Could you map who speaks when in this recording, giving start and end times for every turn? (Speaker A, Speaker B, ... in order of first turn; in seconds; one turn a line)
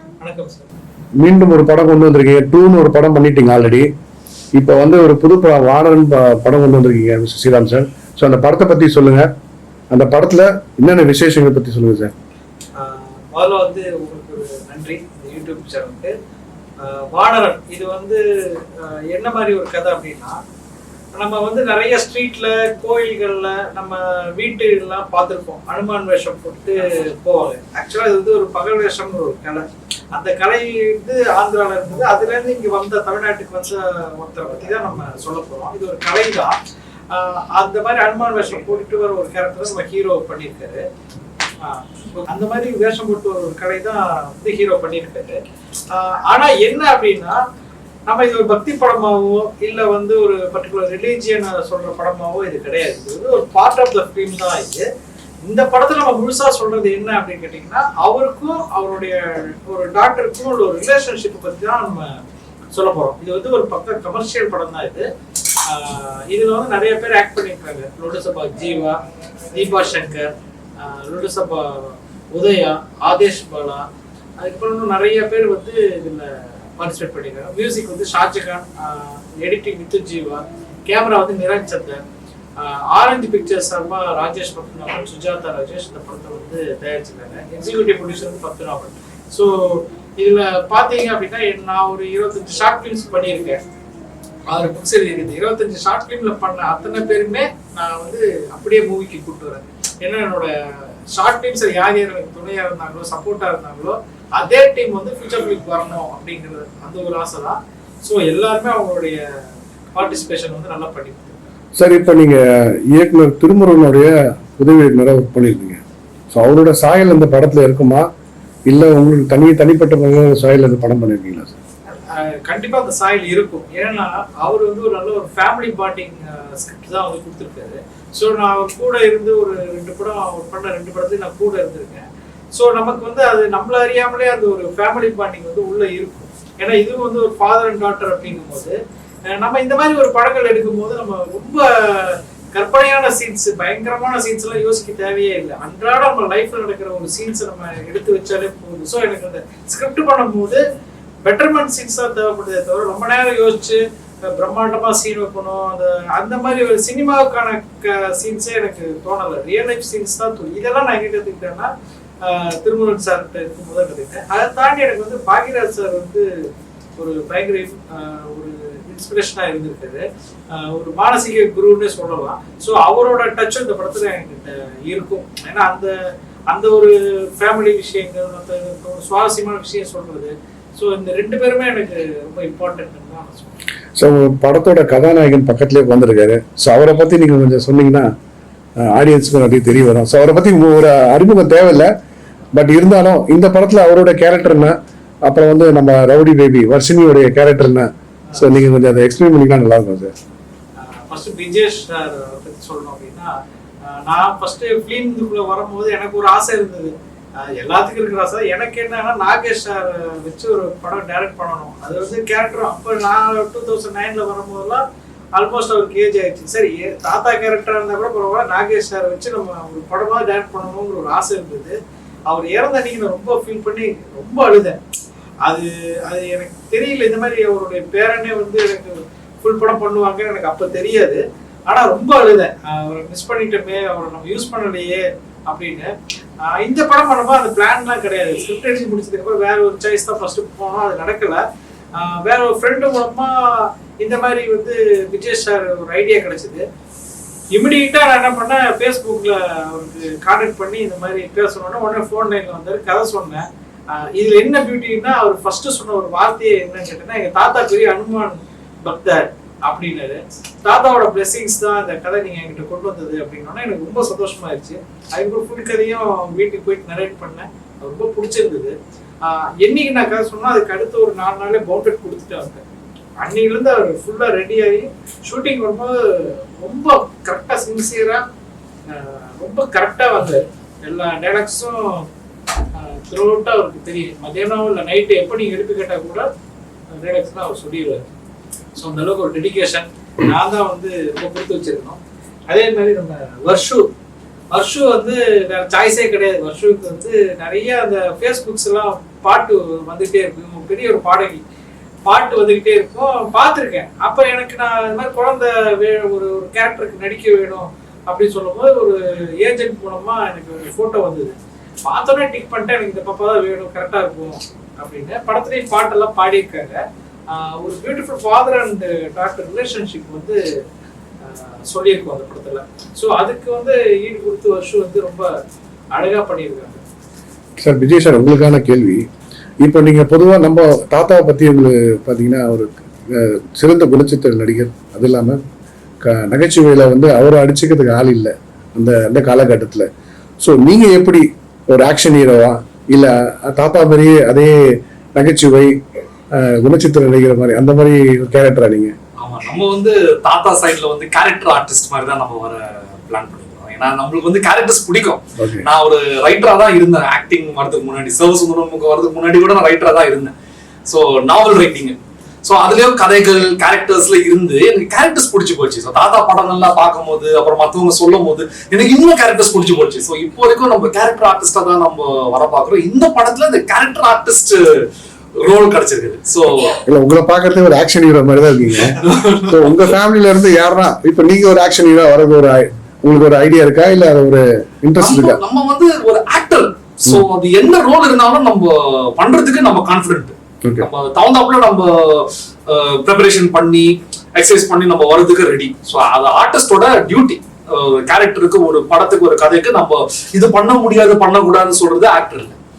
Speaker A: 0.2-0.7
Speaker B: 1.2-3.9
Speaker B: 4.5-9.3
Speaker B: 9.9-12.1
Speaker A: 12.8-16.1
Speaker A: 16.8-20.4
Speaker A: 21.1-36.5
Speaker A: 37.1-40.8
Speaker A: 41.6-45.4
Speaker A: 45.9-47.4
Speaker A: 48.1-54.9
Speaker A: 55.5-62.2
Speaker A: 62.7-65.0
Speaker A: 65.7-69.0
Speaker A: 69.5-73.8
Speaker A: 74.4-82.0
Speaker A: 82.6-93.6
Speaker A: 94.5-100.5
Speaker A: 101.1-109.2
Speaker A: 110.0-111.5
Speaker B: 111.8-112.4
Speaker B: 112.9-115.8
Speaker B: 116.3-118.1
Speaker B: 118.7-121.5
Speaker A: 121.9-138.8
Speaker A: 139.3-150.6
Speaker A: 151.2-161.7
Speaker A: 162.2-166.2
Speaker A: 167.0-175.9
Speaker A: 176.5-183.6
Speaker B: 184.0-188.1
Speaker B: 188.8-191.9
Speaker B: 192.6-200.1
Speaker A: 200.8-203.3
Speaker A: 203.9-214.8
Speaker A: 215.4-221.8
Speaker A: 222.3-224.8
Speaker A: 225.4-235.9
Speaker A: 236.4-241.4
Speaker A: 241.9-246.6
Speaker A: 247.5-272.6
Speaker A: 273.2-278.2
Speaker A: 278.9-282.1
Speaker A: 282.8-286.3
Speaker A: 287.0-288.0
Speaker A: 288.8-293.8
Speaker A: 294.5-301.4
Speaker A: 302.1-320.4
Speaker A: 321.2-325.3
Speaker A: 325.9-326.8
Speaker B: 327.6-329.0
Speaker B: 329.6-335.4
Speaker B: 336.0-339.9
Speaker B: 340.4-344.6
Speaker B: 345.2-345.8
Speaker B: 346.3-348.9
Speaker C: 349.2-360.3
Speaker B: 355.4-355.7
Speaker C: 360.9-374.7
Speaker C: 375.4-376.8
Speaker B: 376.9-379.0
Speaker C: 378.9-379.9
Speaker B: 379.5-385.4
Speaker C: 385.0-402.6